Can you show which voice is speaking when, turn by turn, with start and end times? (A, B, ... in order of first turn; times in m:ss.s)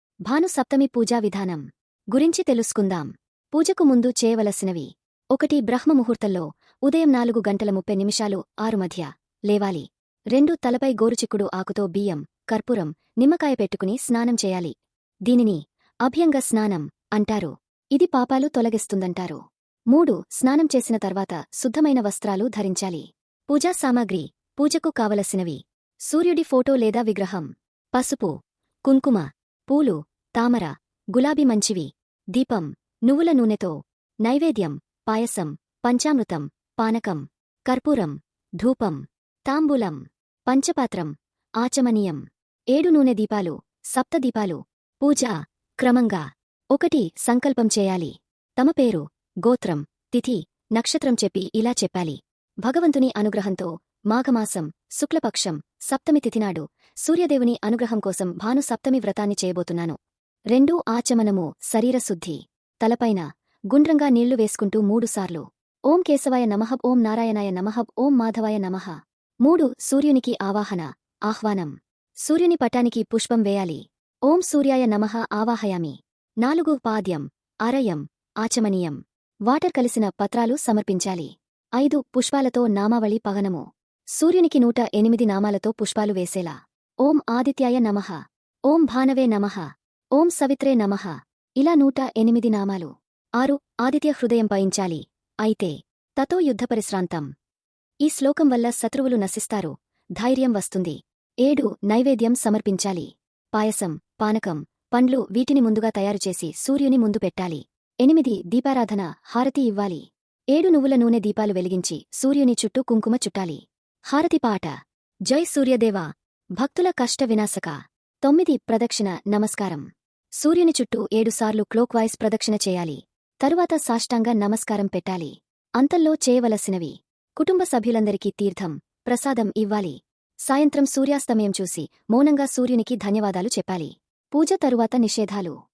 0:00.3-0:01.6 A
0:02.1-0:14.7 A
0:15.3-0:19.4 A
0:19.9-0:28.3 A
0:28.9-0:33.7 A
0:34.2-0:42.2 A
0:42.7-1:00.0 A
1:00.5-1:11.7 A
1:12.2-1:23.6 A
1:24.2-1:28.2 A
1:28.7-1:37.3 A
1:38.0-1:54.7 A
1:55.3-1:59.8 A
2:00.4-2:15.5 A